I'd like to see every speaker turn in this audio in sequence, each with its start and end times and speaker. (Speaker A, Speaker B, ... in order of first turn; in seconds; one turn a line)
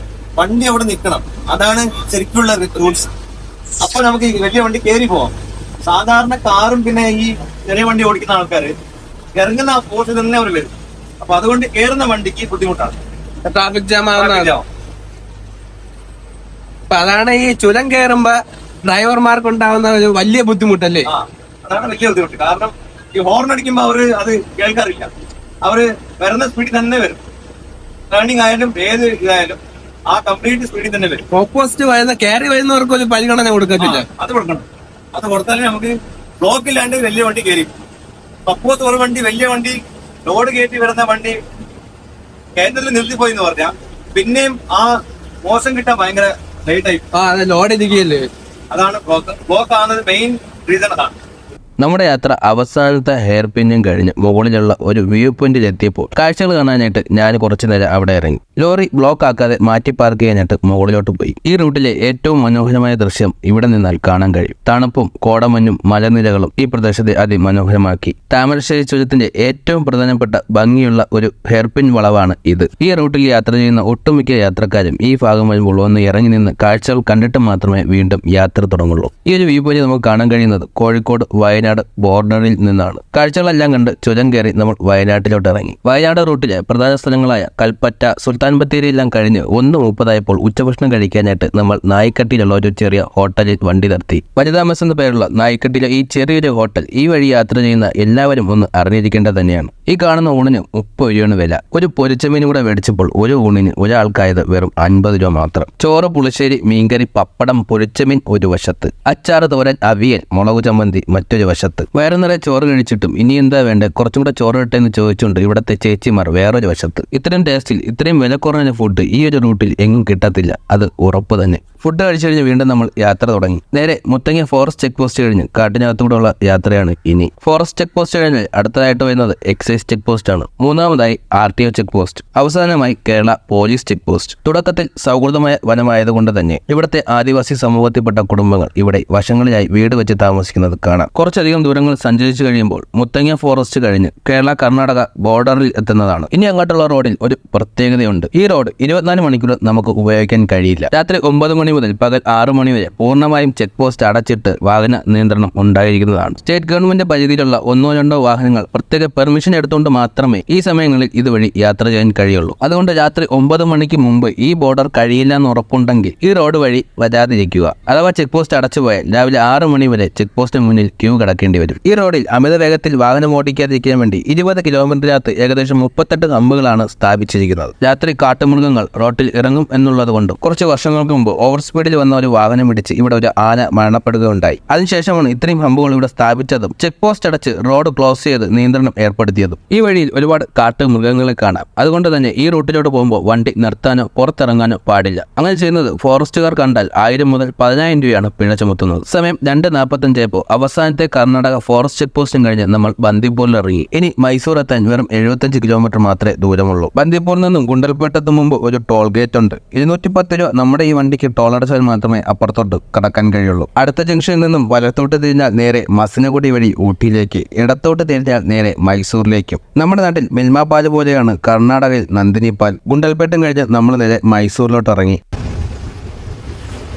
Speaker A: 0.4-3.1
Speaker A: 3.8-5.3
Speaker A: 5.8-8.7
Speaker A: 9.3-12.9
Speaker B: 13.4-14.5
Speaker A: 14.1-14.6
Speaker B: 16.9-21.1
Speaker A: 21.1-25.1
Speaker A: 25.6-27.2
Speaker A: 28.1-31.2
Speaker B: 31.3-34.0
Speaker A: 33.8-37.7
Speaker A: 38.5-41.4
Speaker A: 42.6-47.0
Speaker B: 47.1-48.3
Speaker A: 48.7-51.1
Speaker C: 51.8-225.2